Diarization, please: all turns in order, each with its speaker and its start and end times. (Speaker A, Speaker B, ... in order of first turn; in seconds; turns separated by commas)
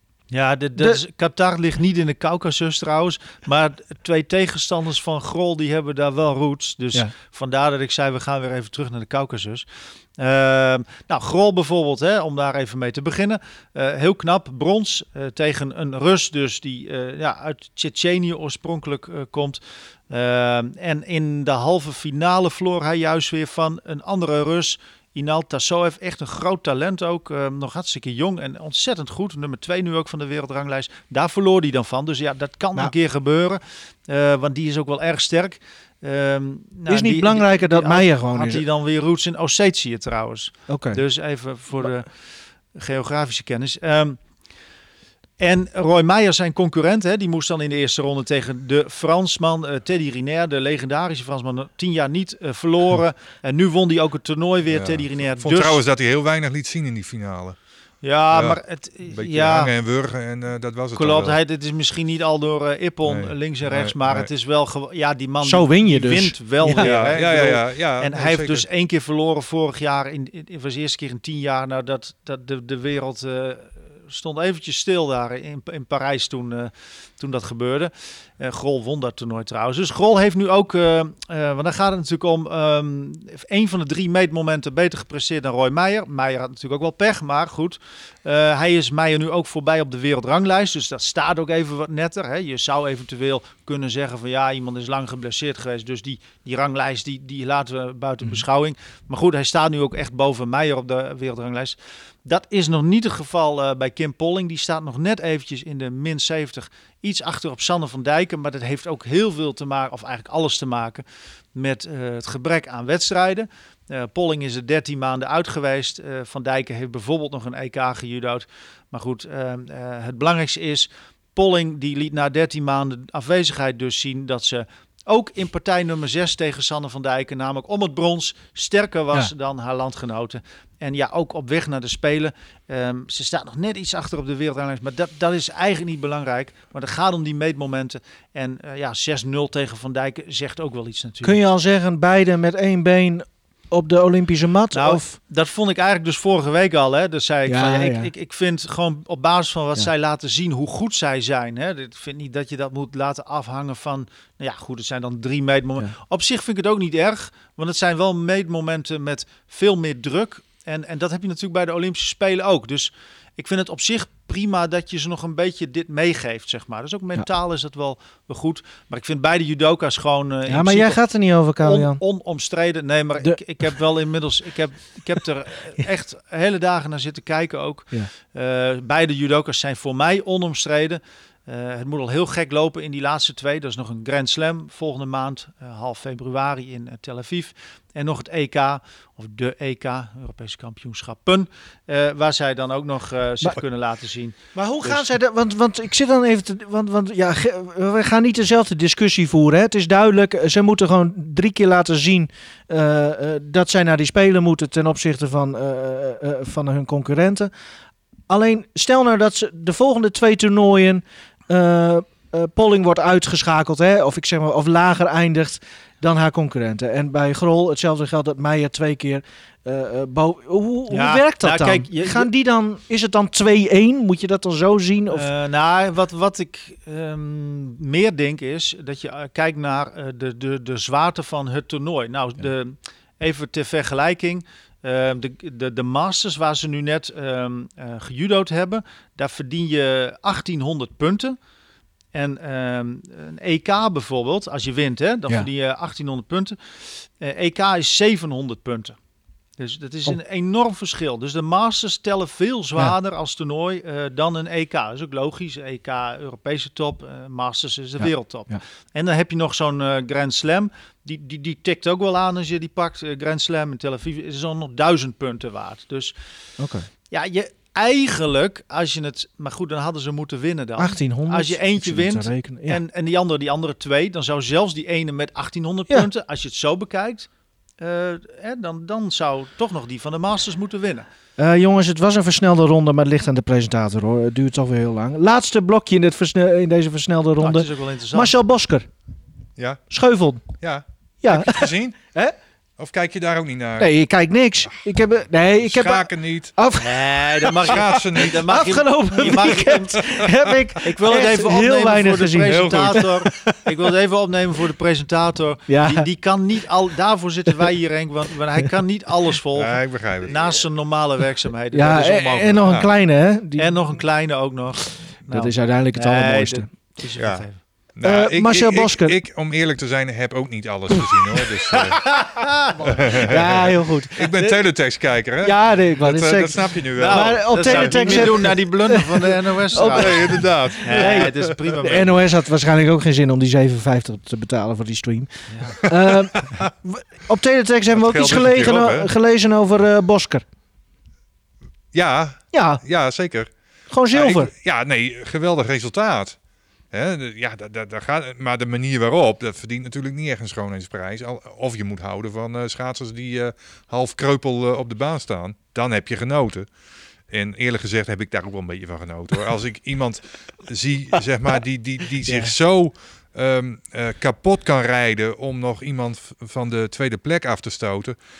Speaker A: 0.3-9.7, Speaker A: 10.2-42.1, Speaker B: 36.9-38.6, Speaker B: 40.7-41.0, Speaker A: 42.7-44.2, Speaker A: 45.4-55.8, Speaker C: 54.7-57.5, Speaker A: 58.0-59.7, Speaker C: 58.3-61.4, Speaker A: 60.9-111.0, Speaker C: 63.0-64.3, Speaker B: 65.4-66.9, Speaker C: 66.8-68.6, Speaker A: 111.5-141.4, Speaker B: 141.2-145.1, Speaker A: 144.7-171.0, Speaker B: 147.5-148.1, Speaker B: 170.5-172.0, Speaker A: 171.6-195.1, Speaker B: 194.6-207.5, Speaker B: 208.3-225.3, Speaker A: 220.9-222.3, Speaker A: 225.1-241.4, Speaker A: 242.1-248.9, Speaker A: 249.6-266.1, Speaker B: 258.0-258.6, Speaker B: 266.6-266.9, Speaker A: 267.1-281.1, Speaker B: 270.8-272.8, Speaker B: 281.4-288.9, Speaker A: 287.4-288.3, Speaker C: 289.6-289.8, Speaker B: 289.9-290.4, Speaker C: 290.6-292.0, Speaker B: 291.2-292.3, Speaker C: 292.8-293.9, Speaker B: 293.8-303.6, Speaker C: 295.6-296.5, Speaker A: 296.8-300.1, Speaker C: 297.6-298.4, Speaker C: 299.4-300.4, Speaker A: 300.8-312.8, Speaker C: 302.5-303.0, Speaker B: 305.7-306.1, Speaker C: 309.6-310.4, Speaker B: 311.7-313.8, Speaker A: 313.6-317.6, Speaker B: 315.3-316.7, Speaker C: 317.2-317.4, Speaker C: 318.0-322.1, Speaker B: 318.0-319.1, Speaker A: 321.7-323.4, Speaker C: 322.8-328.4, Speaker B: 323.3-324.6, Speaker B: 325.4-331.3, Speaker A: 327.0-332.2, Speaker C: 329.9-331.5, Speaker B: 331.8-340.4, Speaker A: 335.5-335.9, Speaker C: 336.4-336.7, Speaker C: 337.9-339.1, Speaker C: 341.9-343.5, Speaker B: 342.5-342.8, Speaker B: 343.9-344.5, Speaker C: 344.1-346.4, Speaker C: 346.9-356.7, Speaker C: 357.3-368.1, Speaker B: 362.2-362.5